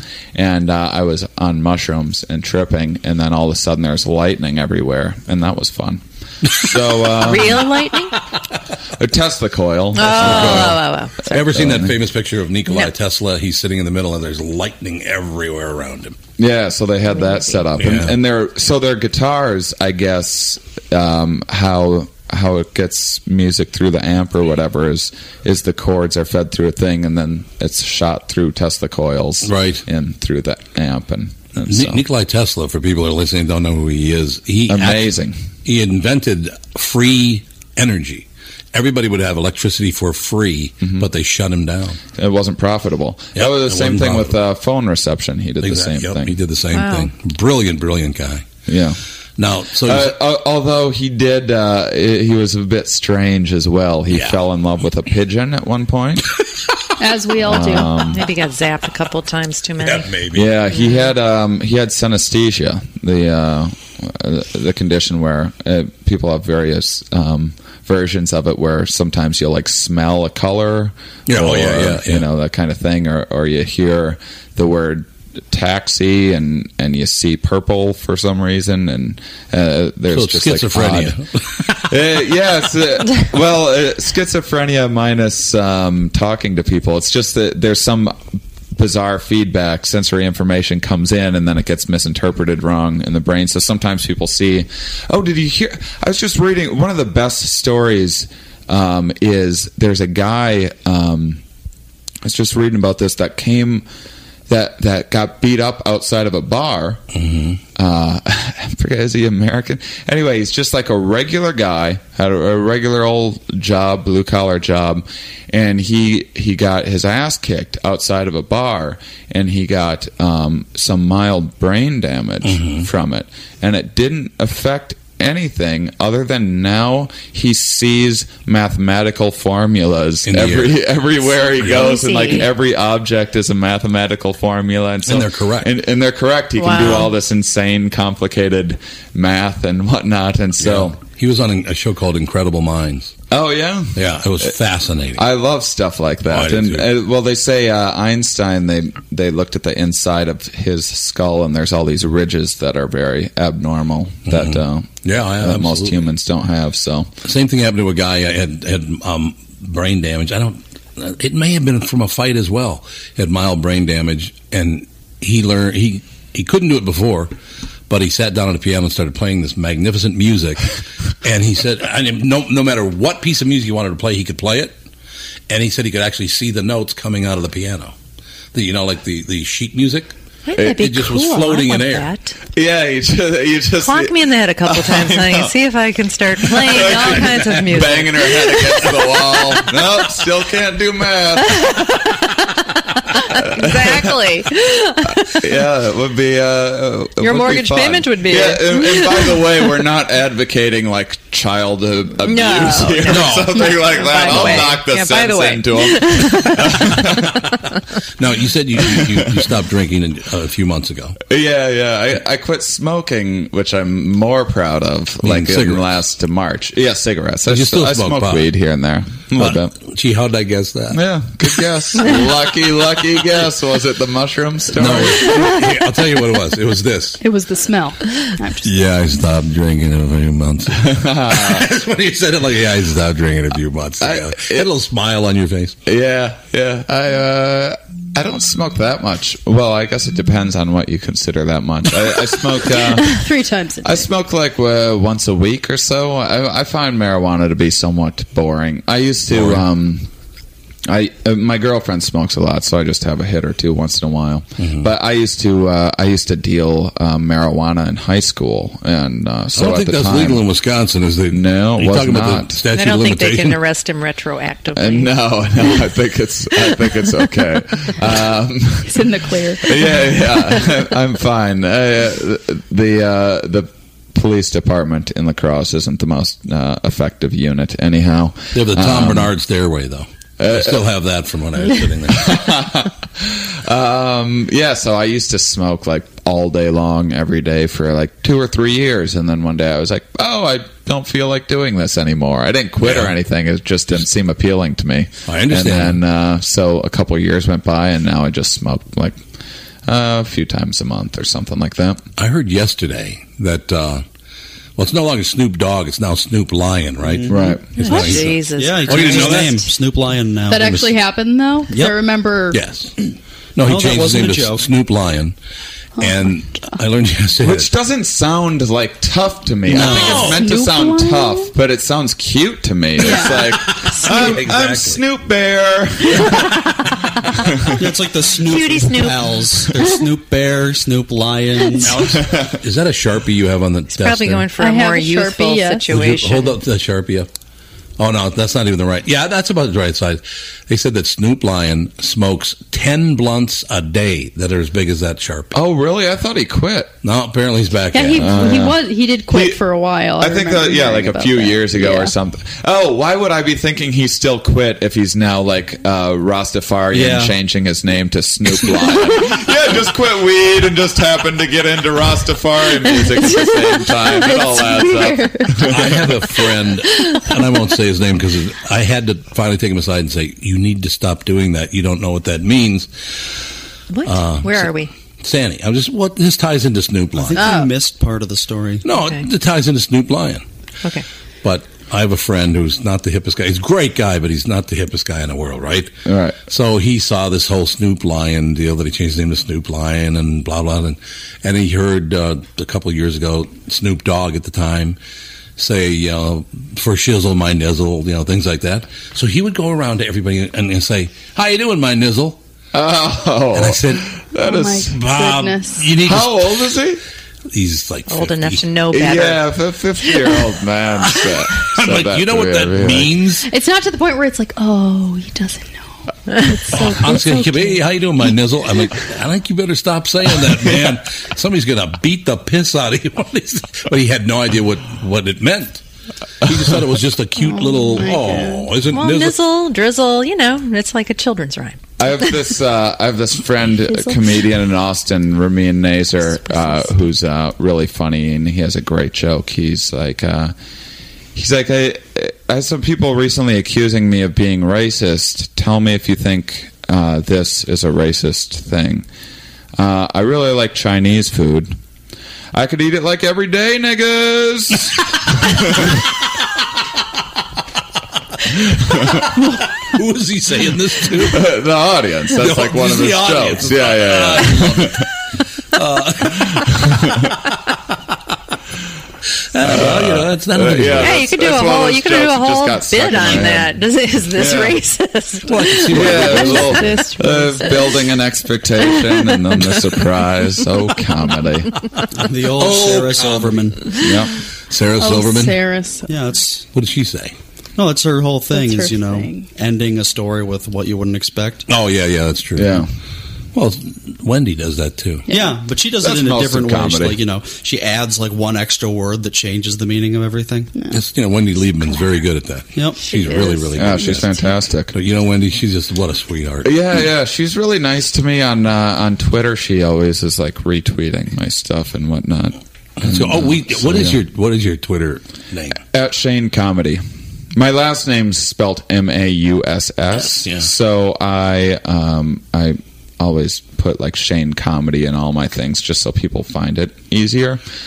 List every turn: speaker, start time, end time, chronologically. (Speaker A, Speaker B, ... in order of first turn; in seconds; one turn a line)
Speaker A: 0.3-7.8
Speaker B: 7.2-8.1
Speaker A: 9.0-11.9
Speaker B: 9.9-11.5
Speaker C: 10.0-16.2
Speaker B: 12.7-12.9
Speaker A: 16.4-32.0
Speaker C: 17.8-18.2
Speaker C: 29.4-29.8
Speaker C: 31.6-35.1
Speaker A: 34.7-35.4
Speaker C: 35.6-42.0
Speaker A: 40.8-41.1
Speaker A: 42.1-46.4
Speaker C: 43.4-44.4
Speaker C: 45.6-48.5
Speaker B: 46.7-47.1
Speaker A: 48.7-49.0
Speaker C: 49.4-50.2
Speaker A: 49.8-56.2
Speaker C: 54.1-54.4
Speaker D: 57.0-58.0
Speaker A: 57.4-58.3
Speaker B: 58.2-60.1
Speaker C: 59.8-60.5
Speaker A: 60.3-81.2
Speaker C: 71.3-72.3
Speaker C: 80.1-81.8
Speaker A: 81.9-88.2
Speaker A: 88.8-101.4
Speaker A: 102.2-103.9
Speaker A: 104.5-107.0
Speaker C: 107.1-107.6
Speaker A: 107.8-141.0
Speaker C: 122.4-122.9
Speaker C: 130.2-130.8
Speaker C: 131.5-132.0
Speaker B: 131.8-132.5
Speaker C: 135.1-135.7
Speaker B: 136.6-137.1
Speaker C: 140.6-143.1
Speaker A: 143.3-144.5
Speaker C: 143.9-145.2
Speaker A: 145.2-157.1
Speaker C: 146.3-146.9
Speaker C: 154.3-156.0
Speaker C: 157.2-167.3
Speaker C: 167.9-170.7
Speaker C: 171.2-174.8
Speaker C: 175.5-177.9
Speaker C: 178.5-180.1
Speaker B: 180.5-182.3
Speaker A: 180.6-180.9
Speaker C: 180.6-182.1
Speaker A: 182.6-185.6
Speaker B: 183.8-188.6
Speaker A: 186.4-191.8
Speaker C: 186.8-187.8
Speaker A: 193.3-194.2
Speaker B: 193.4-195.2
Speaker A: 195.3-207.5
Speaker B: 197.2-199.2
Speaker B: 202.2-206.5
Speaker C: 203.1-204.7
Speaker C: 208.2-211.2
Speaker A: 208.8-209.5
Speaker A: 211.3-219.8
Speaker C: 215.2-215.9
Speaker C: 217.5-218.5
Speaker C: 219.3-221.0
Speaker A: 220.9-225.6
Speaker C: 224.7-227.2
Speaker D: 227.2-228.8
Speaker C: 228.6-235.8
Speaker A: 230.7-231.7
Speaker A: 234.0-234.7
Speaker A: 235.9-243.2
Speaker D: 242.8-244.1
Speaker A: 243.8-250.1
Speaker C: 249.3-249.7
Speaker A: 250.9-260.4
Speaker C: 254.6-254.9
Speaker C: 259.6-263.6
Speaker A: 261.3-262.6
Speaker B: 262.7-265.1
Speaker A: 264.7-269.0
Speaker D: 268.9-270.0
Speaker A: 269.6-279.4
Speaker C: 278.5-282.3
Speaker A: 280.4-280.9
Speaker A: 282.1-299.2
Speaker C: 292.8-293.1
Speaker C: 295.3-296.0
Speaker A: 299.9-302.0
Speaker C: 302.2-304.1
Speaker C: 304.8-309.6
Speaker E: 307.0-307.6
Speaker A: 307.3-308.1
Speaker B: 307.8-309.6
Speaker E: 308.6-310.9
Speaker D: 310.5-312.6
Speaker E: 311.7-312.0
Speaker C: 312.5-312.9
Speaker C: 313.6-315.4
Speaker E: 313.6-314.7
Speaker D: 316.0-316.8
Speaker C: 316.0-317.7
Speaker A: 317.4-326.6
Speaker D: 319.7-321.5
Speaker E: 319.7-320.3
Speaker C: 319.8-320.4
Speaker D: 323.0-323.5
Speaker C: 323.5-325.0
Speaker A: 327.4-327.8
Speaker E: 327.8-331.9
Speaker B: 328.4-329.3
Speaker C: 331.9-334.5
Speaker A: 332.0-332.6
Speaker B: 333.9-336.6
Speaker D: 334.5-335.9
Speaker C: 335.9-337.3
Speaker C: 338.0-345.5
Speaker A: 345.5-346.9
Speaker C: 347.0-348.5
Speaker D: 347.9-352.1
Speaker A: 348.1-349.6
Speaker A: 350.2-366.5
Speaker E: 356.9-357.4
Speaker D: 364.0-365.7
Speaker C: 365.6-373.3
Speaker B: 373.9-374.9
Speaker C: 374.1-377.5
Speaker E: 377.1-378.9
Speaker C: 378.8-380.4
Speaker C: 381.4-385.9
Speaker A: 386.1-386.4
Speaker C: 386.5-395.0
Speaker C: 395.6-402.4
Speaker A: 402.7-405.0
Speaker C: 403.5-404.0
Speaker D: 404.4-405.9
Speaker C: 404.9-406.7
Speaker A: 406.0-407.0
Speaker C: 407.5-408.7
Speaker B: 408.1-409.4
Speaker A: 408.9-413.2
Speaker C: 411.1-413.5
Speaker D: 413.4-417.9
Speaker C: 416.7-425.8
Speaker C: 426.4-429.4
Speaker D: 427.4-428.7
Speaker B: 428.9-431.8
Speaker A: 432.0-440.5
Speaker A: 441.4-449.1
Speaker A: 449.8-451.8
Speaker A: 452.5-454.9
Speaker A: 455.5-455.9
Speaker A: 458.9-459.3
Speaker C: 459.1-461.5
Speaker A: 461.2-465.1
Speaker C: 462.3-465.1
Speaker C: 465.7-466.9
Speaker C: 469.5-471.4
Speaker A: 469.6-474.8
Speaker B: 471.0-478.0
Speaker C: 473.2-473.5
Speaker C: 475.4-477.1
Speaker A: 475.9-481.7
Speaker E: 482.2-483.8
Speaker C: 482.6-483.5
Speaker A: 484.0-484.3
Speaker C: 484.7-485.7
Speaker D: 485.0-486.1
Speaker E: 486.1-486.7
Speaker C: 486.7-487.4
Speaker E: 487.8-491.7
Speaker D: 488.5-489.5
Speaker C: 491.7-492.8
Speaker A: 492.6-492.9
Speaker C: 493.5-495.3
Speaker D: 495.3-495.6
Speaker E: 495.3-500.7
Speaker A: 496.0-497.2
Speaker C: 500.9-506.7
Speaker E: 502.8-503.0
Speaker B: 503.0-503.9
Speaker A: 503.8-504.9
Speaker A: 506.6-514.2
Speaker C: 513.0-515.8
Speaker A: 515.9-517.0
Speaker A: 517.5-527.6
Speaker C: 520.3-520.7